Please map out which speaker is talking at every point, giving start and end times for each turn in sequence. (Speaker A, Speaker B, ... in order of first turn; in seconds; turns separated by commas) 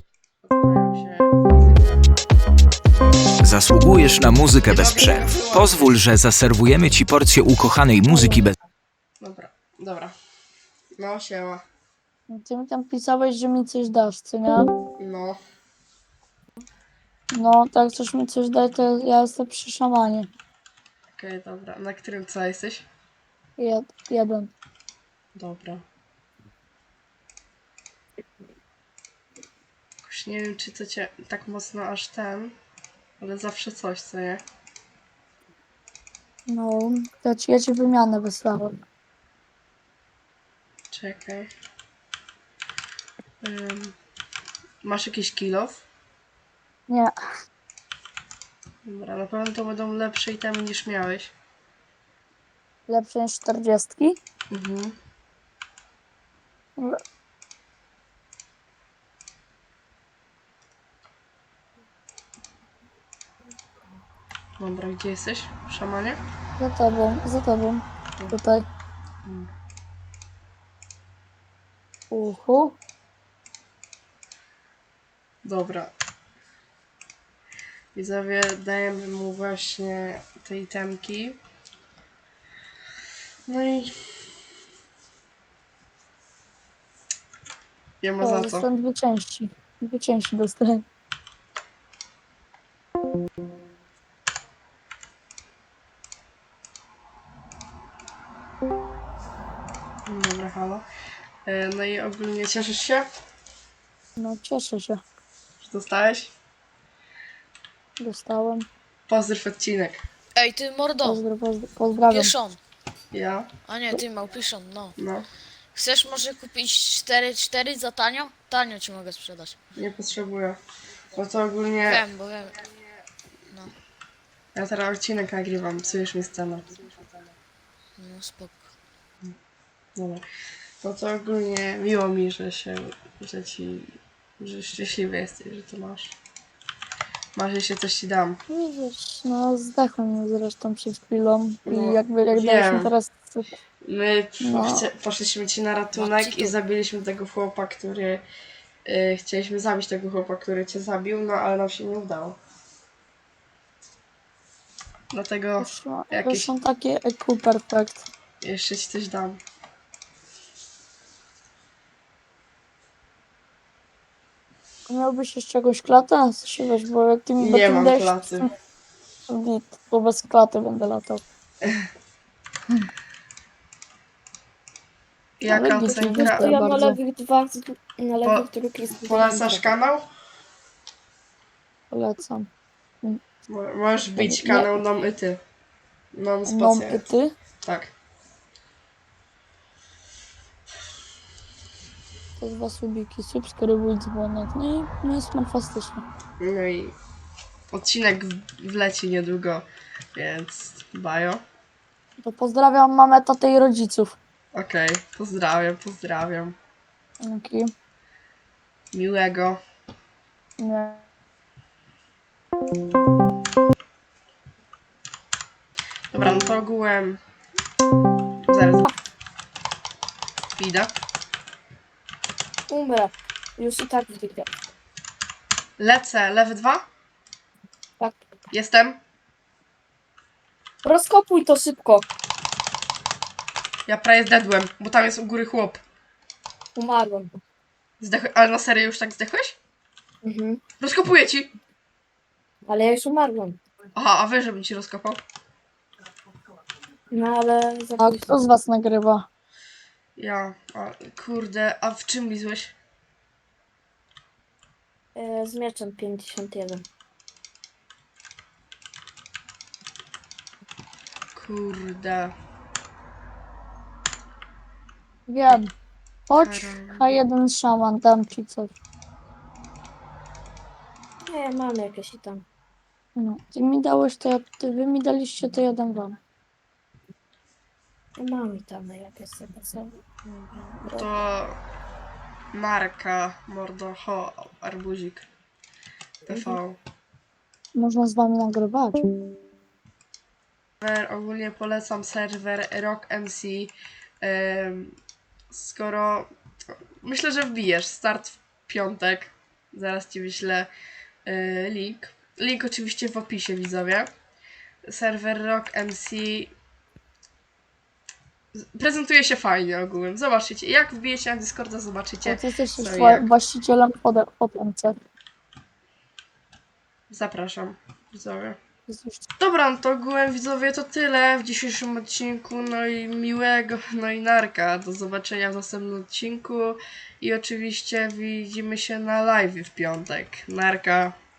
Speaker A: 0.4-2.3, Speaker B: 3.4-8.6, Speaker A: 4.7-6.0, Speaker A: 9.2-10.2, Speaker A: 11.0-11.6, Speaker C: 12.3-14.7, Speaker A: 15.0-15.4, Speaker C: 17.3-20.3, Speaker A: 21.1-22.9, Speaker C: 23.6-24.5, Speaker A: 25.4-25.8, Speaker A: 30.0-32.6, Speaker A: 33.2-34.4, Speaker C: 36.5-38.8, Speaker A: 40.9-41.5, Speaker A: 43.4-44.0, Speaker A: 44.8-45.9, Speaker C: 46.9-47.1, Speaker A: 48.9-51.3, Speaker C: 52.9-54.2, Speaker A: 54.5-55.0, Speaker A: 64.6-66.2, Speaker C: 66.6-68.7, Speaker A: 69.2-69.5, Speaker C: 72.1-72.8, Speaker A: 75.4-75.9, Speaker A: 77.9-81.4, Speaker A: 83.5-84.0, Speaker A: 88.0-88.7, Speaker C: 88.2-90.8, Speaker A: 100.1-100.9, Speaker A: 101.5-103.1, Speaker C: 104.2-105.0, Speaker A: 105.6-106.3, Speaker C: 108.0-108.7, Speaker A: 109.1-110.0, Speaker D: 110.4-111.2, Speaker C: 111.0-112.4, Speaker D: 112.1-112.6, Speaker A: 113.1-113.5, Speaker D: 113.7-115.0, Speaker A: 115.0-115.3, Speaker D: 115.8-119.6, Speaker A: 119.8-120.6, Speaker A: 121.1-122.0, Speaker D: 121.8-122.7, Speaker A: 124.5-126.9, Speaker D: 128.0-128.7, Speaker A: 129.9-130.2, Speaker A: 130.8-136.2, Speaker A: 137.3-138.4, Speaker C: 138.5-143.5, Speaker A: 141.7-142.9, Speaker A: 143.8-148.2, Speaker C: 144.4-144.9, Speaker D: 145.9-146.5, Speaker A: 148.9-152.4, Speaker A: 155.1-156.5, Speaker C: 155.6-158.1, Speaker A: 158.4-159.4, Speaker C: 164.9-168.5, Speaker A: 167.4-168.5, Speaker C: 169.3-171.2, Speaker A: 175.4-176.6, Speaker C: 175.4-177.0, Speaker E: 176.1-179.7, Speaker A: 178.2-180.1, Speaker C: 181.9-182.5, Speaker A: 183.5-185.4, Speaker C: 184.2-184.8, Speaker A: 186.1-187.1, Speaker C: 186.5-187.3, Speaker A: 187.6-187.9, Speaker C: 192.4-196.0, Speaker A: 196.4-197.0, Speaker A: 197.7-201.4, Speaker C: 202.2-204.2, Speaker A: 204.5-206.6, Speaker C: 207.2-207.7, Speaker A: 208.9-209.6, Speaker C: 210.6-211.0, Speaker A: 216.1-217.2, Speaker A: 218.5-218.9, Speaker A: 220.6-220.9, Speaker E: 222.7-224.5, Speaker A: 225.8-226.9, Speaker A: 228.5-229.0, Speaker E: 230.8-232.1, Speaker A: 233.9-235.8, Speaker E: 236.8-237.3, Speaker A: 238.0-239.6, Speaker E: 240.2-240.6, Speaker A: 240.8-241.5, Speaker E: 242.7-243.6, Speaker A: 243.9-245.2, Speaker E: 247.1-248.4, Speaker C: 248.0-249.3, Speaker A: 250.2-252.7, Speaker E: 255.2-256.9, Speaker A: 261.4-262.3, Speaker C: 265.3-265.7, Speaker C: 266.3-268.7, Speaker A: 266.3-267.1, Speaker E: 271.3-272.4, Speaker C: 273.2-276.2, Speaker E: 278.2-280.0, Speaker A: 280.3-281.6, Speaker A: 282.5-285.3, Speaker A: 286.2-286.8, Speaker C: 287.8-289.1, Speaker A: 290.8-295.0, Speaker A: 295.5-296.3, Speaker A: 297.0-300.7, Speaker A: 301.3-304.1, Speaker A: 304.9-306.5, Speaker A: 308.6-313.3, Speaker C: 312.2-315.0, Speaker A: 317.1-318.6, Speaker C: 318.9-319.2, Speaker A: 319.4-331.2